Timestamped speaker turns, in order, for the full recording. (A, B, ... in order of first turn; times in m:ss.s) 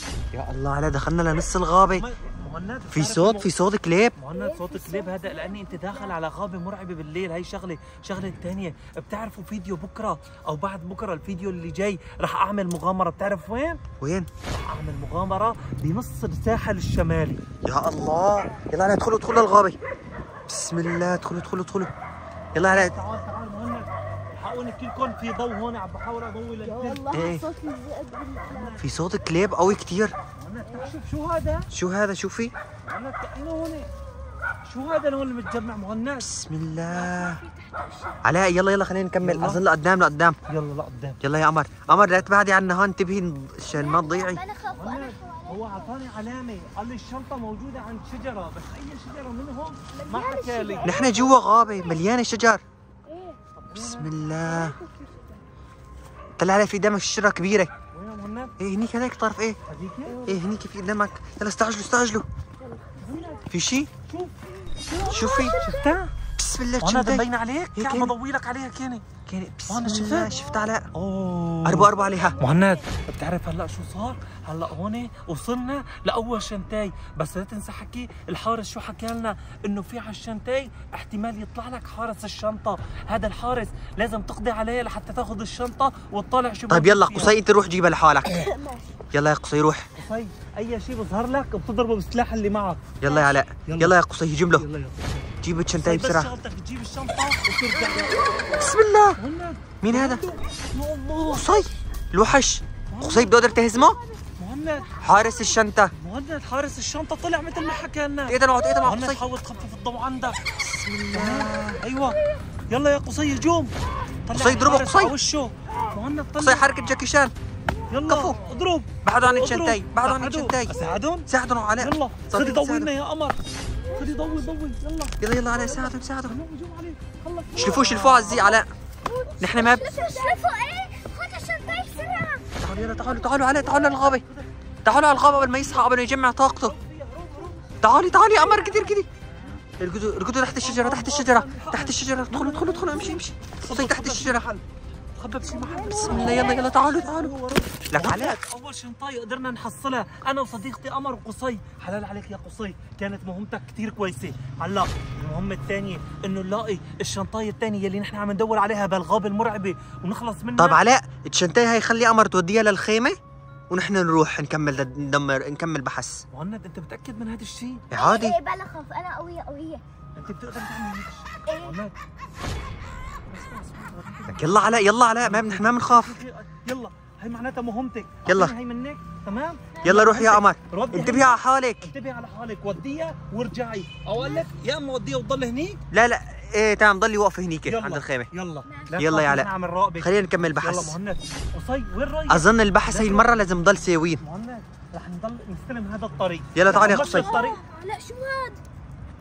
0:00.3-0:02.0 A
0:01.9-0:03.5 B
0:02.9-0:04.2 A
0:04.2-0:13.8 B
0:04.3-0:06.1 C
0:14.0-0:14.3 A
0:14.5-0:17.4 B
0:17.6-0:19.8 A
0:20.5-0:21.9 A
0:22.5-0:22.9 A
0:22.6-0:27.1 B
0:26.6-0:28.8 C
0:27.1-0:27.4 A
0:28.4-0:28.8 B
0:28.8-0:30.1 A
0:30.3-0:31.7 B
0:31.7-0:32.5 A
0:32.8-0:33.9 B
0:34.6-0:36.3 B
0:36.2-0:37.4 A
0:36.9-0:38.2 C
0:38.2-0:40.4 A
0:39.2-0:39.6 B
0:40.5-0:41.2 B
0:41.2-0:44.4 A
0:41.9-0:42.3 B
0:43.7-0:45.9 C
0:44.7-0:50.9 B
0:49.9-0:52.0 C
0:50.8-0:52.6 A
0:53.0-0:53.4 C
0:53.5-0:54.1 B
0:53.7-0:54.8 A
0:54.4-0:55.4 C
0:56.4-0:57.7 A
0:57.9-0:58.5 B
0:58.6-0:59.6 A
0:59.7-1:00.2 B
1:00.1-1:00.4 C
1:00.2-1:02.2 A
1:02.6-1:03.4 C
1:03.0-1:03.5 B
1:03.5-1:03.9 A
1:04.0-1:04.3 B
1:04.9-1:06.1 B
1:04.9-1:05.6 C
1:05.1-1:05.6 A
1:06.4-1:08.1 A
1:06.8-1:09.1 B
1:09.2-1:10.9 A
1:09.7-1:10.4 B
1:10.2-1:10.6 C
1:10.9-1:27.4 B
1:11.6-1:12.4 A
1:12.0-1:12.8 C
1:26.7-1:28.4 A
1:28.3-1:29.0 C
1:29.1-1:29.9 A
1:30.0-1:33.0 B
1:33.0-1:34.6 A
1:33.0-1:33.4 C
1:33.6-1:33.9 B
1:34.6-1:38.3 B
1:35.4-1:36.3 A
1:38.2-1:38.6 C
1:38.6-1:39.2 A
1:39.2-1:41.4 B
1:39.8-1:40.2 A
1:41.3-1:44.0 A
1:42.9-1:43.3 B
1:43.4-1:44.0 C
1:44.4-1:45.0 B
1:45.0-1:45.9 A
1:46.0-1:50.4 B
1:48.3-1:49.2 A
1:50.6-1:51.8 A
1:51.1-1:53.7 B
1:54.2-1:56.7 B
1:54.3-1:55.1 A
1:56.4-1:57.3 A
1:57.9-2:03.4 B
1:58.1-1:58.4 A
1:59.0-2:00.7 A
2:01.3-2:02.9 A
2:03.9-2:04.3 C
2:03.9-2:08.6 B
2:05.2-2:06.4 A
2:07.5-2:07.9 C
2:07.6-2:08.7 A
2:08.5-2:12.5 C
2:09.4-2:09.9 A
2:10.0-2:10.4 B
2:11.6-2:18.4 B
2:12.6-2:14.2 A
2:14.8-2:16.7 A
2:17.8-2:19.1 A
2:19.8-2:24.5 A
2:20.4-2:24.6 B
2:25.1-2:40.8 B
2:25.4-2:26.7 C
2:25.9-2:27.3 A
2:27.9-2:28.4 A
2:40.6-2:43.2 A
2:43.7-2:46.2 A
2:46.3-2:47.9 B
2:47.9-2:48.3 A
2:47.9-2:49.8 C
2:50.2-2:51.9 B
2:51.5-2:51.8 C
2:53.3-3:05.8 B
2:54.3-2:56.2 A
2:58.2-2:58.5 A
2:59.8-3:01.9 A
3:05.9-3:08.3 A
3:07.6-3:13.4 B
3:08.6-3:09.0 C
3:09.0-3:09.5 A
3:10.0-3:11.0 A
3:12.3-3:14.2 A
3:14.2-3:17.6 B
3:16.5-3:17.3 A
3:16.7-3:18.6 C